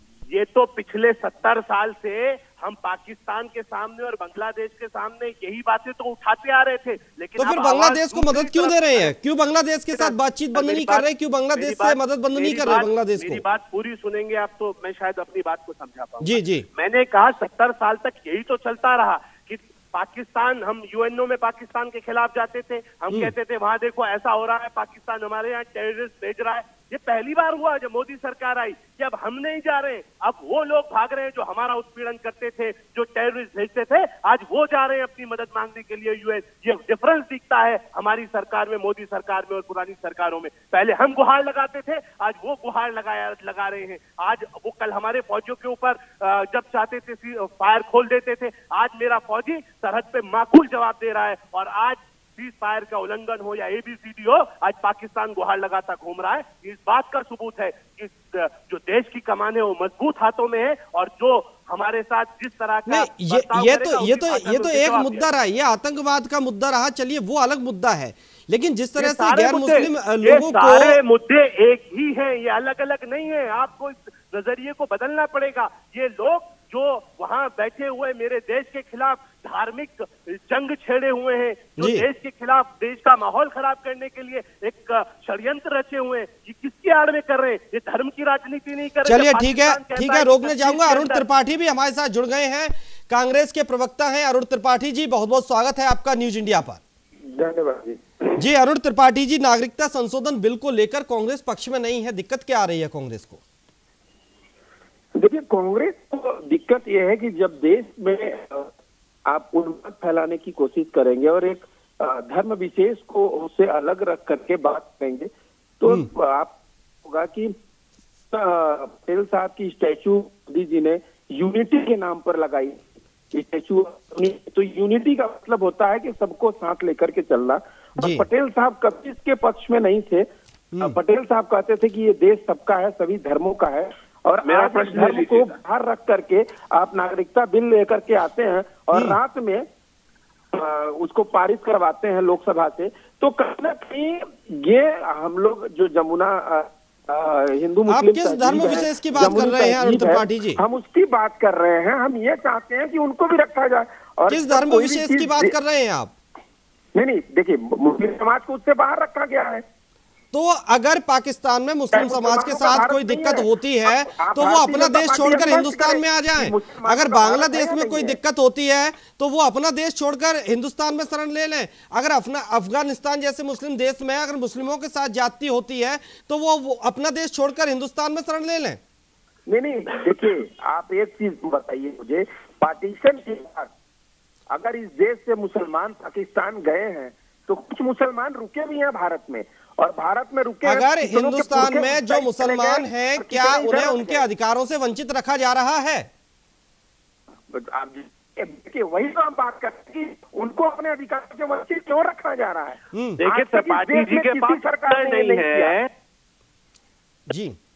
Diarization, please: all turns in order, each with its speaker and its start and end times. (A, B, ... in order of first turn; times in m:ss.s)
0:00.3-0:09.1 A
0:07.4-0:13.4 B
0:09.9-1:05.3 A
0:16.2-0:16.6 B
1:02.9-1:11.0 B
1:09.0-1:31.2 A
1:21.8-1:22.1 B
1:29.0-1:36.8 B
1:37.3-1:38.4 C
1:38.4-1:43.4 B
1:45.2-1:48.7 C
1:49.3-1:57.5 C
1:58.3-2:02.8 C
2:03.3-2:10.3 C
2:08.0-2:08.2 B
2:10.7-2:11.0 B
2:10.8-2:19.6 C
2:14.4-2:15.5 A
2:18.9-2:19.2 B
2:20.5-2:35.5 C
2:27.9-2:30.6 B
2:34.3-2:36.1 B
2:36.9-2:39.6 C
2:40.3-2:58.8 B
2:41.9-2:48.2 C
2:59.5-3:03.7 C
3:04.5-3:14.2 C
3:10.6-3:16.1 B
3:17.5-3:25.8 C
3:22.9-3:23.2 B
3:23.2-3:25.9 A
3:27.3-3:27.6 B